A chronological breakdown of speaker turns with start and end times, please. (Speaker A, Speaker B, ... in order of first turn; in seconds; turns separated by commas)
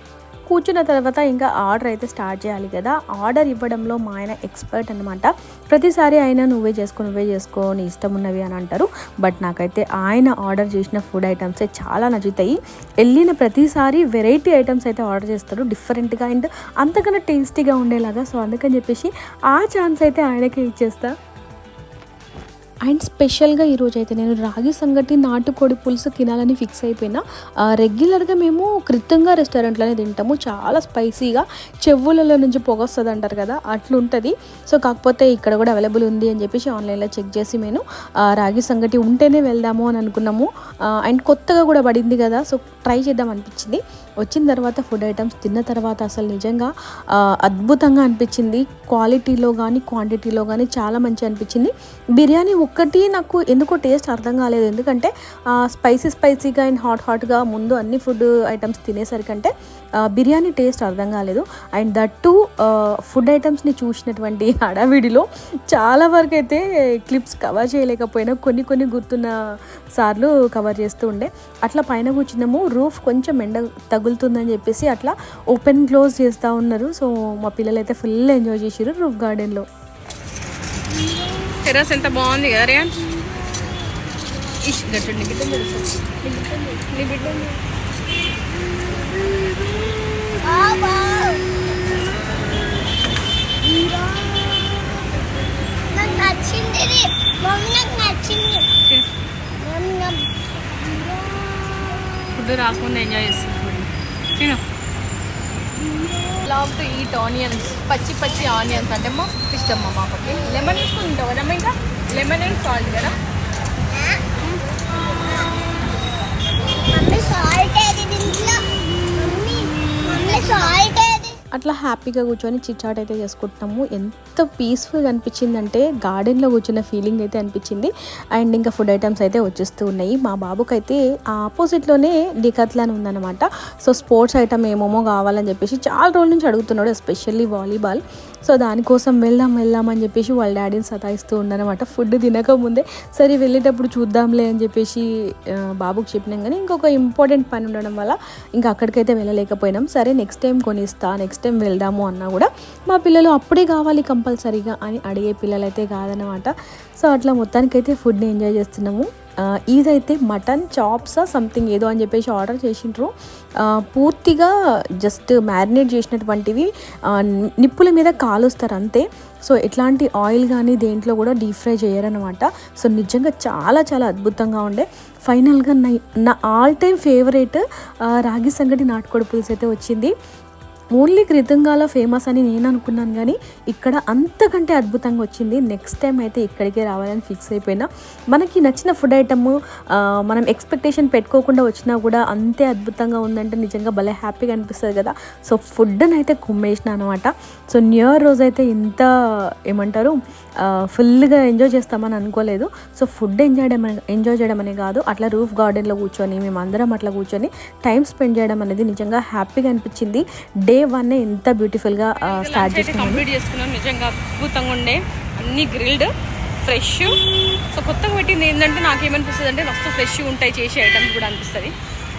Speaker A: 0.5-21.1, Speaker A: 22.9-46.7, Speaker A: 47.2-59.5, Speaker A: 60.0-69.3, Speaker A: 70.0-79.7, Speaker B: 81.0-81.5, Speaker C: 81.6-83.0, Speaker B: 83.3-84.5, Speaker C: 84.6-87.6, Speaker B: 86.3-86.8, Speaker B: 90.4-92.8, Speaker B: 93.6-95.0, Speaker B: 95.9-98.7, Speaker B: 99.6-102.0, Speaker C: 102.3-104.6, Speaker B: 105.8-106.5, Speaker C: 106.4-113.2, Speaker B: 113.9-114.2, Speaker B: 116.7-121.4, Speaker A: 121.5-180.1, Speaker A: 181.0-199.1, Speaker A: 199.7-213.2, Speaker C: 212.2-216.1, Speaker C: 216.6-217.2, Speaker C: 217.7-221.7